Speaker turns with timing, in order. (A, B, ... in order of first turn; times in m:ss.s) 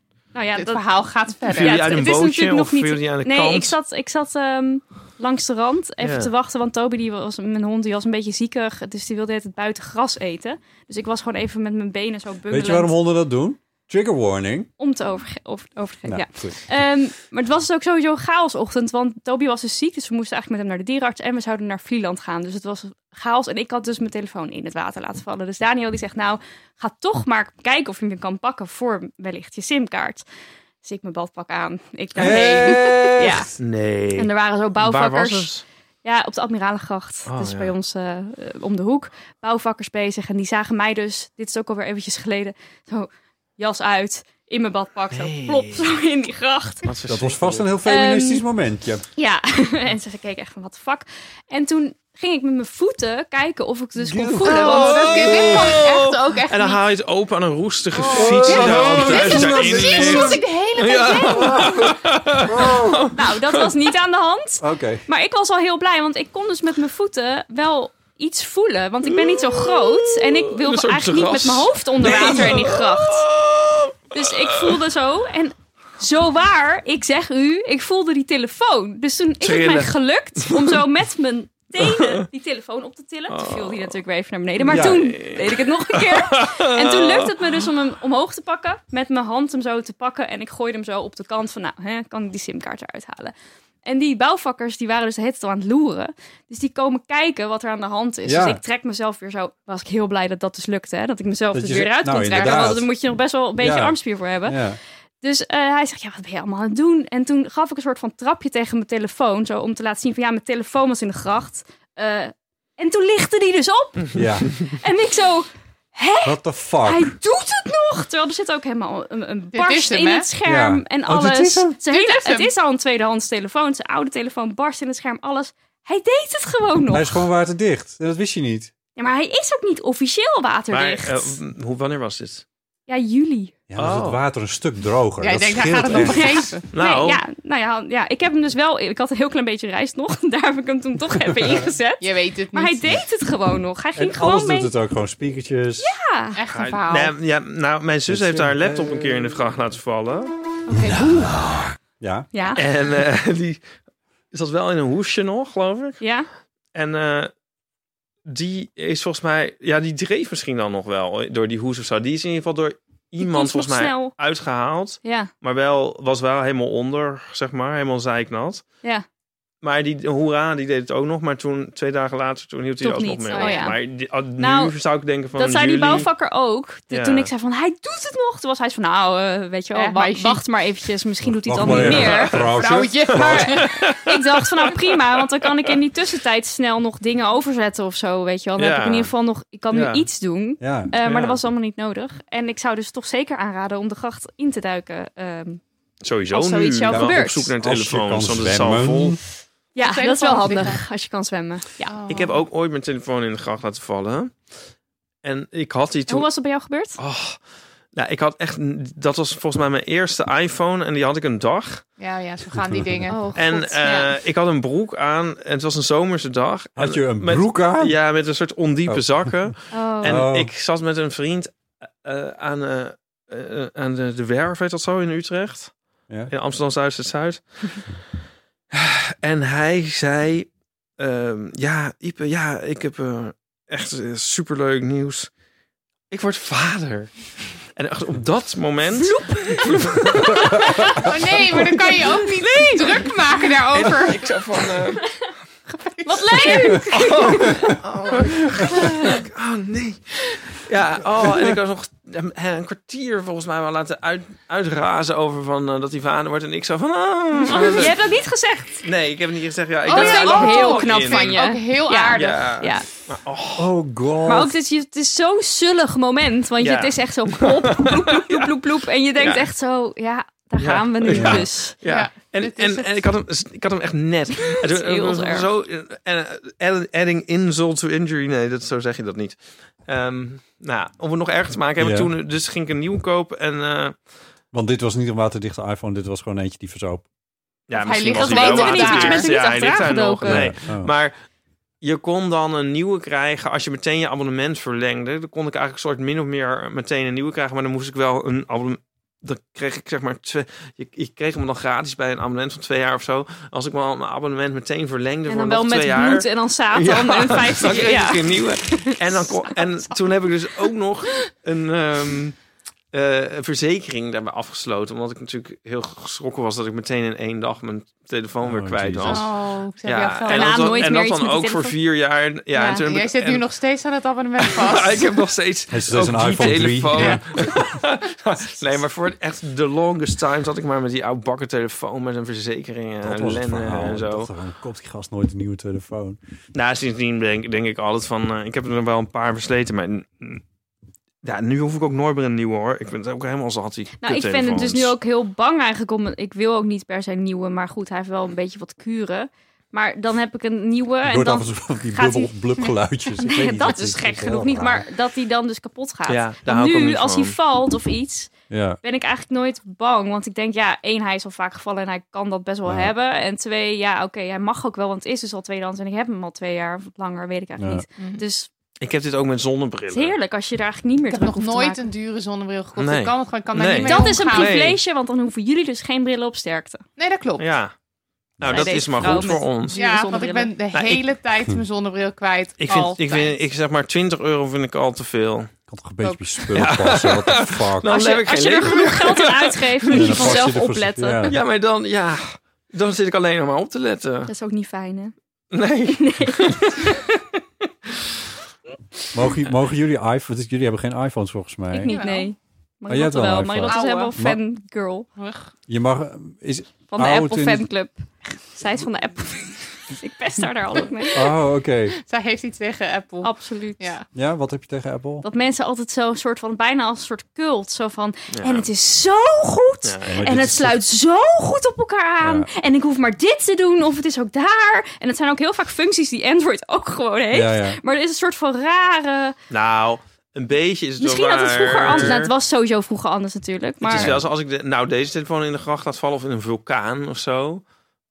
0:00.3-0:12.9 A
0:00.5-0:01.9 B
0:01.6-0:03.8 C
0:06.0-0:06.3 C
0:12.5-0:14.7 D
0:14.8-0:30.2 A
0:16.0-0:16.6 D
0:30.8-0:33.5 A
0:32.2-0:33.5 D
0:32.2-0:33.0 B
0:33.6-0:35.6 C
0:34.2-0:46.9 A
0:37.3-0:37.7 C
0:45.1-0:45.9 C
0:46.8-0:47.7 C
0:47.1-0:49.0 D
0:47.8-0:48.4 A
0:49.2-0:55.4 A
0:54.0-0:54.7 D
0:54.4-0:56.8 B
0:54.4-1:03.7 C
0:58.1-1:00.4 D
0:58.1-1:01.8 B
1:01.2-1:03.1 D
1:03.1-1:13.2 A
1:04.6-1:05.0 D
1:09.1-1:14.8 C
1:14.1-1:33.3 A
1:19.4-1:20.8 C
1:21.8-1:22.2 C
1:23.3-1:24.0 C
1:24.6-1:27.5 C
1:24.6-1:25.1 D
1:33.8-2:07.2 A
1:38.2-1:38.6 D
1:41.5-1:42.9 D
1:42.3-1:42.7 B
1:43.6-1:44.8 D
1:54.1-1:54.6 D
1:56.2-1:57.2 D
1:59.5-2:00.3 B
2:00.4-2:01.8 D
2:01.9-2:02.5 B
2:06.9-2:08.7 D
2:09.0-2:11.4 A
2:10.7-2:12.4 C
2:12.9-2:13.6 A
2:13.7-2:16.5 D
2:13.8-2:14.2 C
2:15.2-2:16.6 B
2:16.0-2:24.7 A
2:16.7-2:17.2 C
2:22.0-2:22.8 B
2:24.0-2:25.9 D
2:25.8-2:26.4 A
2:26.3-2:27.1 B
2:26.5-2:30.3 C
2:28.1-2:29.3 D
2:30.7-2:31.6 B
2:32.0-2:32.3 D
2:32.3-2:32.6 A
2:32.5-2:33.6 C
2:34.3-2:36.0 C
2:36.0-2:36.3 A
2:36.7-2:37.3 C
2:38.2-2:48.6 C
2:43.2-2:44.1 A
2:45.0-2:45.3 A
2:49.6-2:56.1 C
2:52.8-2:53.8 A
2:53.3-2:53.7 B
2:54.4-2:54.8 A
2:55.3-3:02.4 A
2:56.9-2:57.3 C
2:59.7-3:00.4 B
3:01.2-3:03.6 D
3:01.5-3:02.5 C
3:02.3-3:03.8 B
3:03.1-3:05.8 C
3:03.9-3:15.6 A
3:08.6-3:09.1 C
3:09.7-3:10.0 C
3:10.6-3:10.9 D
3:11.0-3:11.4 C
3:16.0-3:19.2 C
3:16.3-3:17.5 A
3:16.9-3:19.2 D
3:19.7-3:22.2 A
3:19.8-3:20.8 B
3:21.8-3:22.4 B
3:22.1-3:24.4 C
3:25.2-3:26.3 C
3:26.1-3:27.0 A
3:27.0-3:27.4 C
3:27.9-3:31.8 C
3:32.0-3:33.2 B
3:32.5-3:33.1 D
3:33.1-3:34.1 A
3:33.3-3:45.7 C
3:36.8-3:38.0 D
3:38.8-3:39.5 D
3:39.7-3:40.3 A
3:40.0-3:40.5 D
3:46.3-3:47.8 C
3:48.7-3:55.3 C
3:56.1-3:57.1 C
3:57.8-4:00.6 C
3:58.9-4:03.2 A
4:00.7-4:04.3 B
4:03.7-4:05.2 C
4:05.7-4:07.3 B
4:06.0-4:07.8 A
4:06.9-4:18.0 C
4:08.7-4:09.2 A
4:17.4-4:18.9 A
4:18.8-4:21.4 C
4:19.9-4:22.6 B
4:19.9-4:22.9 A
4:22.1-4:23.7 C
4:23.6-4:24.6 D
4:24.2-4:31.8 A
4:26.6-4:28.5 C
4:29.2-4:29.5 C
4:30.6-4:43.9 C
4:31.1-4:31.5 D
4:31.8-4:33.0 B
4:34.4-4:35.5 A
4:41.8-4:42.1 D
4:44.5-4:47.1 D
4:47.7-4:51.1 C
4:47.7-4:49.3 B
4:48.0-4:50.5 A
4:50.2-4:50.9 D
4:51.8-5:12.4 C
5:05.2-5:09.1 A
5:12.9-5:19.3 C
5:18.4-5:19.2 D
5:19.0-5:20.7 B
5:19.8-5:23.4 C
5:20.3-5:21.8 A
5:22.5-5:22.9 A
5:22.6-5:25.2 B
5:24.5-5:34.3 C
5:25.7-5:27.2 D
5:26.9-5:27.2 B
5:33.0-5:36.2 D
5:36.5-5:40.4 C
5:41.2-5:44.9 C
5:44.0-5:52.3 A
5:51.0-5:54.8 D
5:53.1-5:58.3 A
5:56.1-5:57.4 C
5:58.5-5:58.8 D
5:58.8-6:08.5 A
6:02.6-6:02.9 D
6:07.6-6:07.8 D
6:08.8-6:10.2 C
6:09.9-6:11.9 A
6:11.1-6:14.7 B
6:12.8-6:14.8 C
6:13.8-6:16.8 A
6:17.0-6:17.5 B
6:17.4-6:17.7 C
6:18.4-6:19.4 D
6:18.4-6:19.8 C
6:18.4-6:20.5 A
6:19.7-6:23.3 B
6:20.7-6:21.0 C
6:22.6-6:25.5 C
6:25.7-6:27.9 D
6:26.0-6:26.4 B
6:26.5-6:30.5 C
6:27.8-6:31.4 A
6:29.9-6:31.4 D
6:31.2-6:34.3 C
6:34.2-6:35.1 A
6:35.5-6:37.0 C
6:35.9-6:37.2 A
6:39.1-6:42.0 D
6:41.7-6:45.1 A
6:41.9-6:42.3 B
6:42.9-6:44.4 D
6:43.6-6:44.1 B
6:45.2-6:45.5 B
6:45.7-6:47.7 D
6:46.9-6:51.3 A
6:51.1-6:51.9 D
6:52.0-6:54.0 B
6:53.2-6:53.9 A
6:54.1-6:55.2 D
6:55.2-7:09.3 A
6:58.3-6:58.7 C
6:59.8-7:00.3 C
7:00.1-7:00.8 D
7:02.2-7:02.5 D
7:07.3-7:07.8 D
7:09.5-7:12.3 C
7:11.0-7:14.2 A
7:13.8-7:17.6 C
7:13.9-7:14.2 D